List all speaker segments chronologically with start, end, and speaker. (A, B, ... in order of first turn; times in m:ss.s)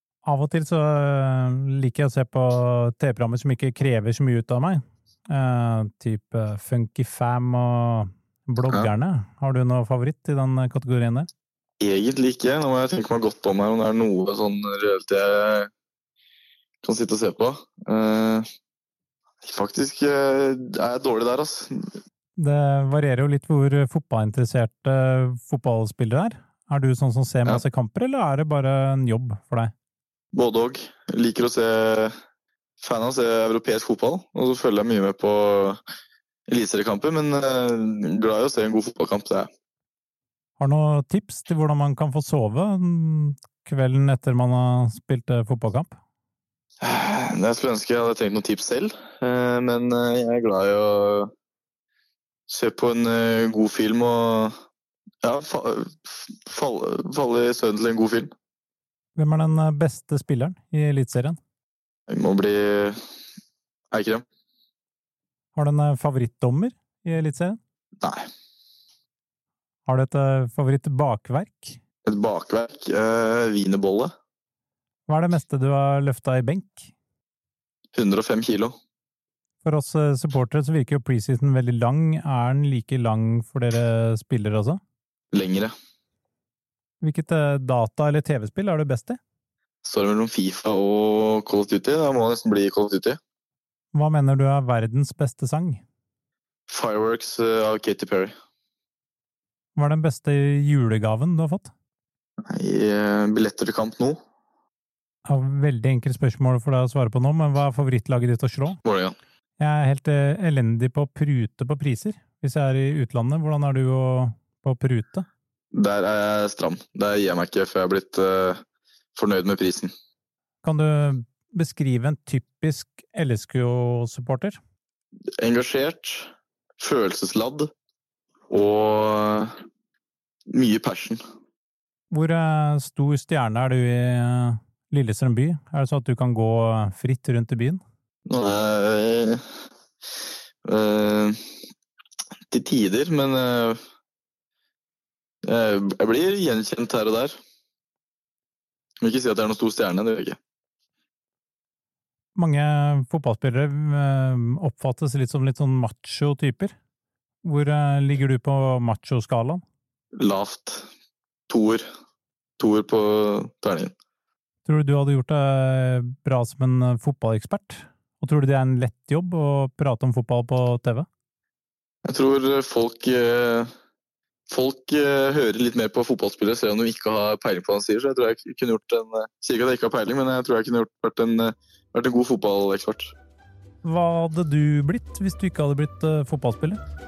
0:00.2-0:11.3 A
0:11.8-0:15.7 B
0:16.8-0:18.4 B
0:19.4-0:21.9 B
0:22.4-0:29.7 A
0:30.3-0:32.1 B
0:32.8-0:35.8 B
0:36.5-0:39.5 B
0:40.6-0:45.9 A
0:46.8-0:51.3 B
0:52.5-0:54.5 B
0:55.2-0:58.3 B
0:59.2-1:01.4 A
1:02.1-1:03.0 B
1:03.9-1:04.2 B
1:05.5-1:07.6 A
1:08.0-1:08.3 B
1:09.8-1:11.8 A
1:12.0-1:14.1 B
1:15.1-1:16.9 A
1:17.9-1:18.7 B
1:19.6-1:24.8 A
1:25.3-1:25.7 B
1:27.0-1:29.2 A
1:29.8-1:33.2 B
1:33.9-1:35.8 A
1:36.7-1:38.3 B
1:39.8-1:41.7 A
1:42.5-1:44.2 B
1:45.2-1:48.8 A
1:48.8-1:49.1 B
1:49.6-1:55.3 A
1:55.7-1:58.6 B
1:59.1-1:59.9 B
2:00.6-2:04.6 A
2:05.4-2:07.7 B
2:08.5-2:09.5 B
2:10.5-2:11.2 B
2:12.1-2:17.8 A
2:18.2-2:19.4 B
2:20.6-2:21.4 B
2:22.5-2:23.8 B
2:25.4-2:27.3 B
2:29.0-2:30.4 B
2:32.4-2:36.7 A
2:37.4-2:39.6 A
2:40.2-2:40.8 B
2:41.5-2:41.8 B
2:42.6-2:43.9 B
2:44.6-2:51.1 A
2:52.0-2:53.7 B
2:54.5-3:03.1 B
3:03.8-3:06.8 A